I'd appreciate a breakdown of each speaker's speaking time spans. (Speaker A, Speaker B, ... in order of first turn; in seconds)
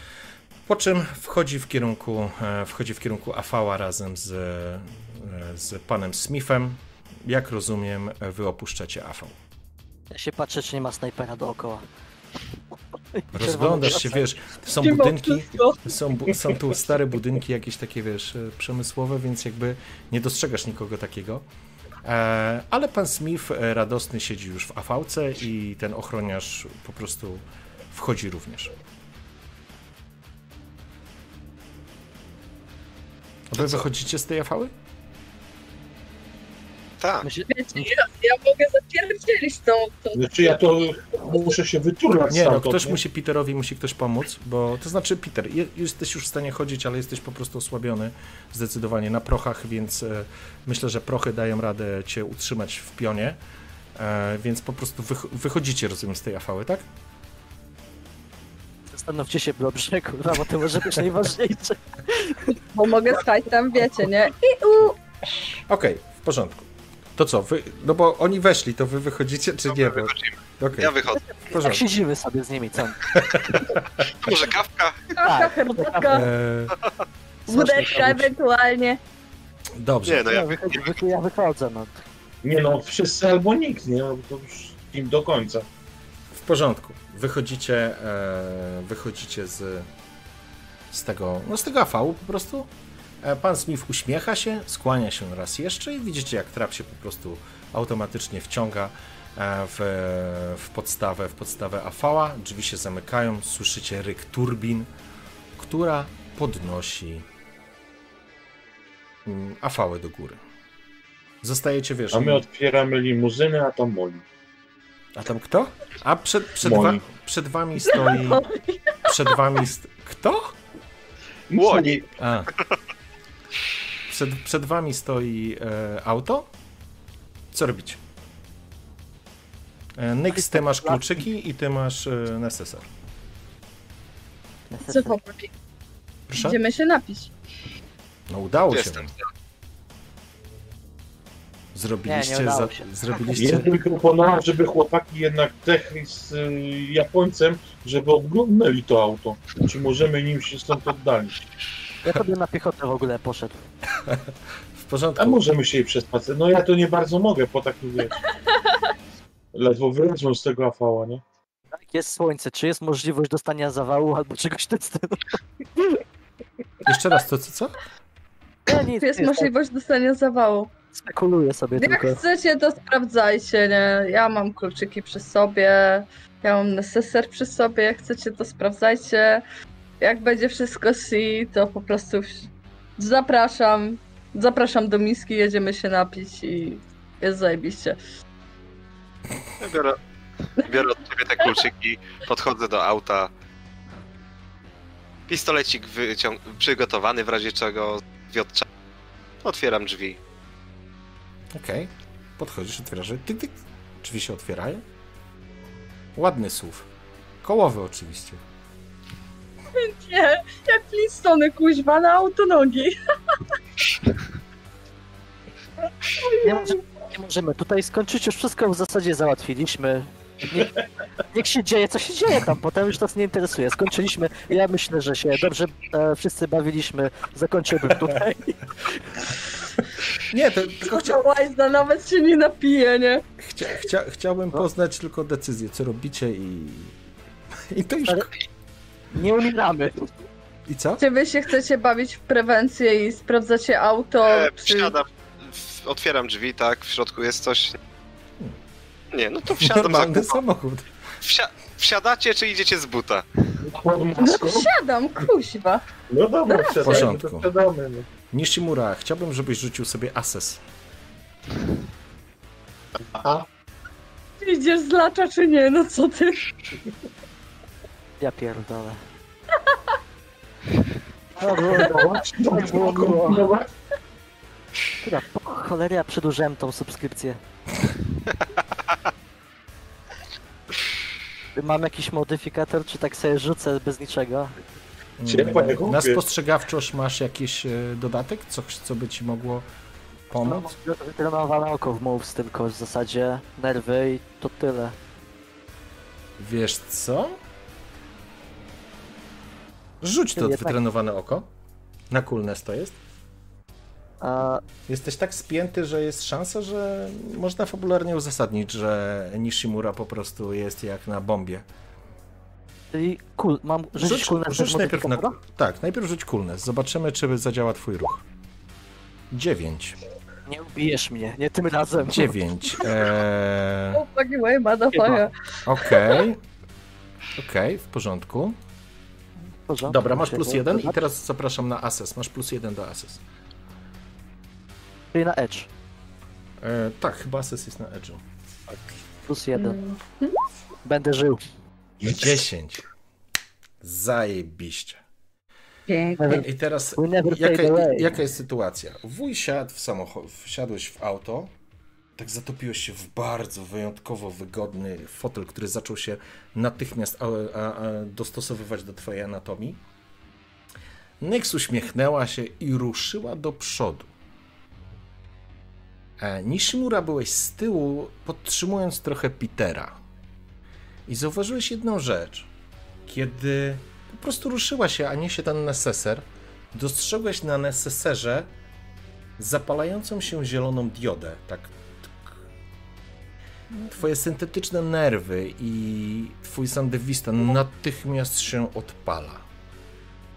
Speaker A: 0.7-9.4, 13.3-21.4, 22.0-28.7, 33.5-34.7, 42.3-53.4, 54.0-56.8, 65.7-71.8, 73.1-74.0, 76.1-76.8, 77.5-78.3, 79.8-80.3, 86.3-89.9, 90.9-92.7, 93.2-104.9, 105.6-107.3, 109.2-110.4, 111.4-112.4, 115.1-118.5, 119.0-120.6, 122.2-122.5, 124.1-126.5, 127.5-128.0, 129.9-132.9, 136.3-136.6, 138.3-139.1, 141.7-143.7, 154.0-155.4, 166.8-167.8, 201.5-204.8, 206.2-206.9, 207.4-208.4, 230.2-231.2, 233.4-236.9, 237.7-238.3, 240.7-241.0, 249.5-250.9, 256.8-257.5, 258.3-260.6, 285.2-289.6, 290.3-290.7, 296.4-297.4, 300.0-301.5, 302.1-303.0, 304.9-311.6, 313.9-318.2, 319.3-320.0, 322.1-324.0, 325.7-326.4, 327.4-328.6, 329.8-333.2, 336.6-338.2, 342.0-342.8, 343.8-345.0, 346.3-351.5, 352.2-359.8, 361.2-364.1, 366.2-370.0, 371.1-372.5, 373.1-378.5, 379.4-382.3, 383.8-389.4
Speaker B: 10.1-11.8, 13.1-14.3, 37.2-37.9, 58.9-62.6, 71.4-73.1, 75.2-76.2, 80.3-82.0, 130.3-131.0, 134.7-135.2, 142.1-143.3, 152.0-153.6, 161.7-165.4, 168.7-169.5, 170.9-172.2, 216.4-220.7, 221.3-229.2, 239.1-240.1, 268.2-269.0, 271.4-273.5, 275.0-277.4, 281.6-284.5, 290.4-294.9, 300.4-300.8, 304.2-304.6, 312.9-315.4, 320.5-322.3, 324.9-325.3, 329.7-331.0, 335.1-335.7, 339.2-339.8, 340.8-341.4, 346.2-348.1
Speaker C: 14.8-15.8, 37.5-40.2, 62.6-65.0, 75.1-76.3, 77.5-79.0, 117.8-119.4, 134.9-135.5, 136.3-137.3, 168.7-170.7, 171.8-179.4, 180.0-188.0, 209.7-213.4, 216.2-216.8, 230.8-233.2, 241.0-244.9, 254.2-255.8, 256.5-257.1, 264.4-266.5, 323.9-326.2, 339.5-340.3, 345.9-346.4
Speaker D: 33.6-33.8, 37.0-37.2, 69.7-71.2, 74.1-75.1, 80.0-81.0, 121.5-122.0, 138.7-139.2, 189.6-193.3, 195.3-198.7, 199.4-200.2, 244.2-247.8, 249.1-250.4, 251.2-253.6
Speaker E: 40.1-43.0, 82.4-85.7, 112.1-114.2, 116.6-117.0, 121.5-122.0, 143.3-151.3, 155.2-158.2, 159.5-161.2, 253.6-254.7, 256.1-258.1, 263.1-263.4, 271.5-273.7, 285.3-286.2